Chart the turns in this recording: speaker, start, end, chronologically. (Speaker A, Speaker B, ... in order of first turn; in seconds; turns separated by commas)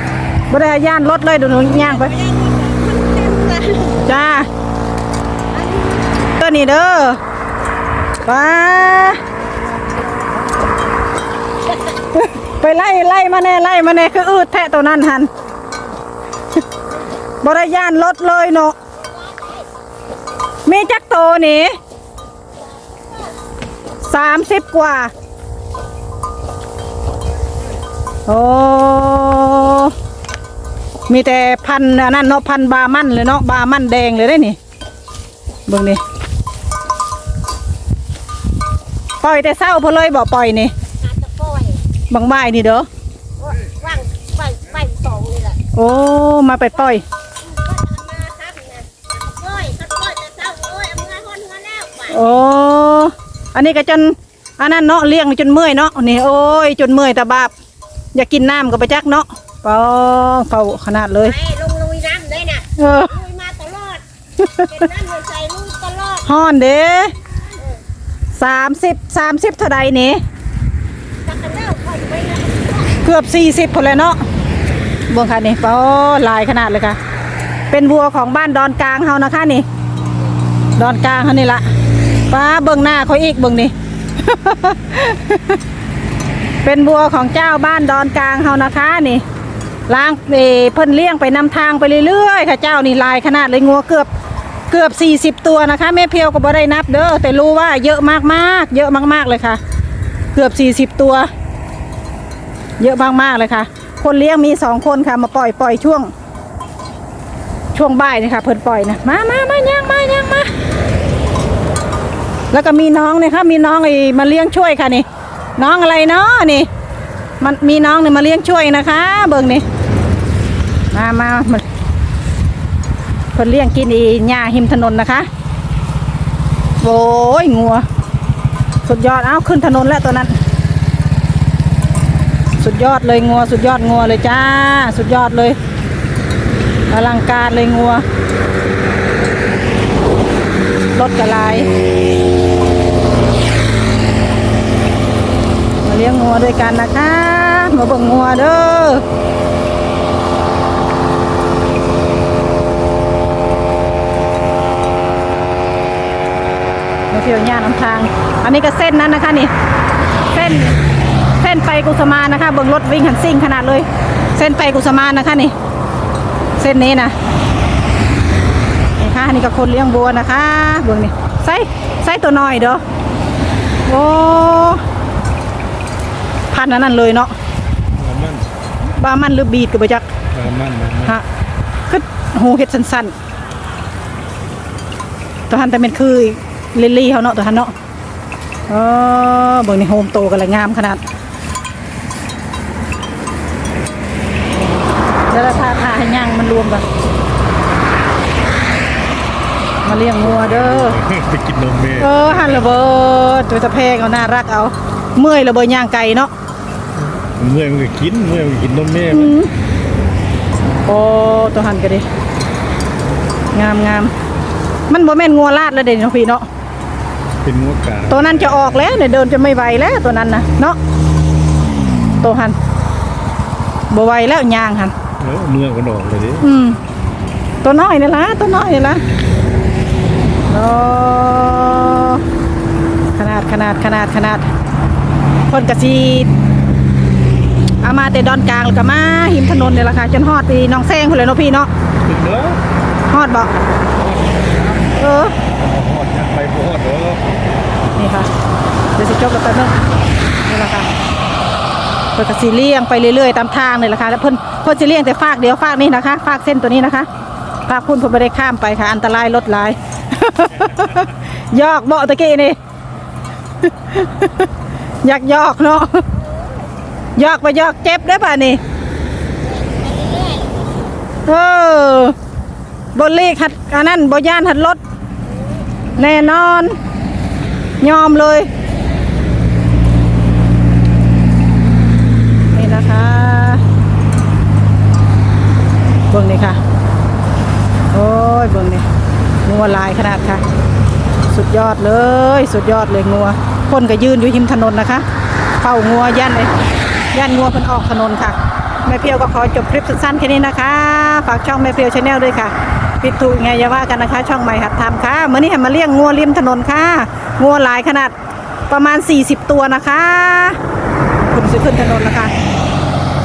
Speaker A: 0.5-2.1, Speaker B: 2.0-3.9, Speaker A: 3.9-4.5, Speaker A: 6.4-7.2, Speaker A: 8.2-9.2, Speaker A: 12.1-15.3, Speaker A: 17.4-18.8, Speaker B: 19.3-19.6, Speaker A: 20.6-21.8, Speaker A: 24.0-25.1, Speaker A: 28.2-29.9, Speaker A: 31.1-34.6, Speaker A: 35.7-36.0, Speaker A: 39.2-40.7, Speaker B: 41.0-41.8, Speaker A: 42.1-42.9, Speaker B: 43.4-45.6, Speaker A: 45.7-47.0, Speaker B: 47.5-52.1, Speaker A: 52.1-57.5, Speaker A: 58.1-61.4, Speaker B: 61.3-64.0, Speaker A: 62.8-63.2, Speaker A: 64.4-64.8, Speaker B: 64.7-66.2, Speaker A: 66.2-67.1, Speaker A: 68.3-70.2, Speaker B: 71.2-72.9, Speaker A: 73.0-74.2, Speaker A: 75.1-77.0, Speaker A: 77.7-79.7, Speaker A: 80.8-81.7, Speaker A: 82.3-85.6, Speaker A: 86.6-89.2, Speaker A: 89.9-94.1, Speaker A: 94.7-99.6, Speaker A: 100.3-101.3, Speaker A: 102.8-106.1, Speaker A: 107.7-110.5, Speaker A: 112.5-115.0, Speaker A: 115.6-116.7, Speaker A: 117.4-119.6, Speaker A: 120.9-121.6, Speaker A: 123.3-125.3, Speaker A: 126.8-127.8, Speaker A: 128.8-130.4, Speaker A: 132.6-135.6, Speaker A: 136.9-138.0, Speaker A: 140.9-141.7, Speaker A: 145.8-149.0, Speaker A: 157.1-159.5, Speaker A: 160.3-160.8, Speaker A: 161.4-165.5, Speaker A: 166.6-167.1, Speaker A: 169.0-172.8, Speaker A: 173.8-174.8, Speaker A: 176.5-177.3, Speaker C: 177.9-178.5, Speaker A: 178.8-180.1, Speaker C: 180.3-181.2, Speaker A: 181.9-183.1, Speaker A: 185.5-187.7, Speaker A: 188.7-191.0, Speaker A: 195.3-196.8, Speaker A: 199.8-200.9, Speaker C: 200.2-202.7, Speaker A: 202.0-206.3, Speaker C: 207.2-209.3, Speaker A: 209.1-209.5, Speaker A: 210.8-212.1, Speaker A: 213.5-214.1, Speaker A: 214.9-216.4, Speaker C: 217.4-218.8, Speaker A: 218.1-220.8, Speaker A: 222.2-222.6, Speaker A: 223.9-224.9, Speaker C: 225.2-226.5, Speaker A: 226.4-226.8, Speaker A: 227.6-229.0, Speaker A: 230.5-232.2, Speaker A: 233.2-234.5, Speaker A: 235.5-236.3, Speaker A: 237.8-241.7, Speaker C: 242.0-242.6, Speaker A: 243.1-243.5, Speaker C: 244.0-244.9, Speaker A: 244.9-245.3, Speaker C: 245.5-247.2, Speaker A: 247.9-248.3, Speaker A: 248.9-249.8, Speaker A: 250.4-250.9, Speaker A: 252.2-257.1, Speaker A: 257.7-262.6, Speaker A: 263.6-264.5, Speaker A: 265.0-266.1, Speaker A: 267.1-268.6, Speaker B: 269.4-270.6, Speaker A: 271.2-272.1, Speaker A: 272.9-274.8, Speaker A: 276.0-276.8, Speaker A: 277.8-278.5, Speaker A: 282.5-283.6, Speaker A: 286.1-286.6, Speaker A: 287.9-288.8, Speaker A: 289.4-290.4, Speaker A: 291.3-295.0, Speaker A: 295.6-296.5, Speaker A: 297.1-308.1, Speaker A: 308.7-310.6, Speaker A: 311.3-312.3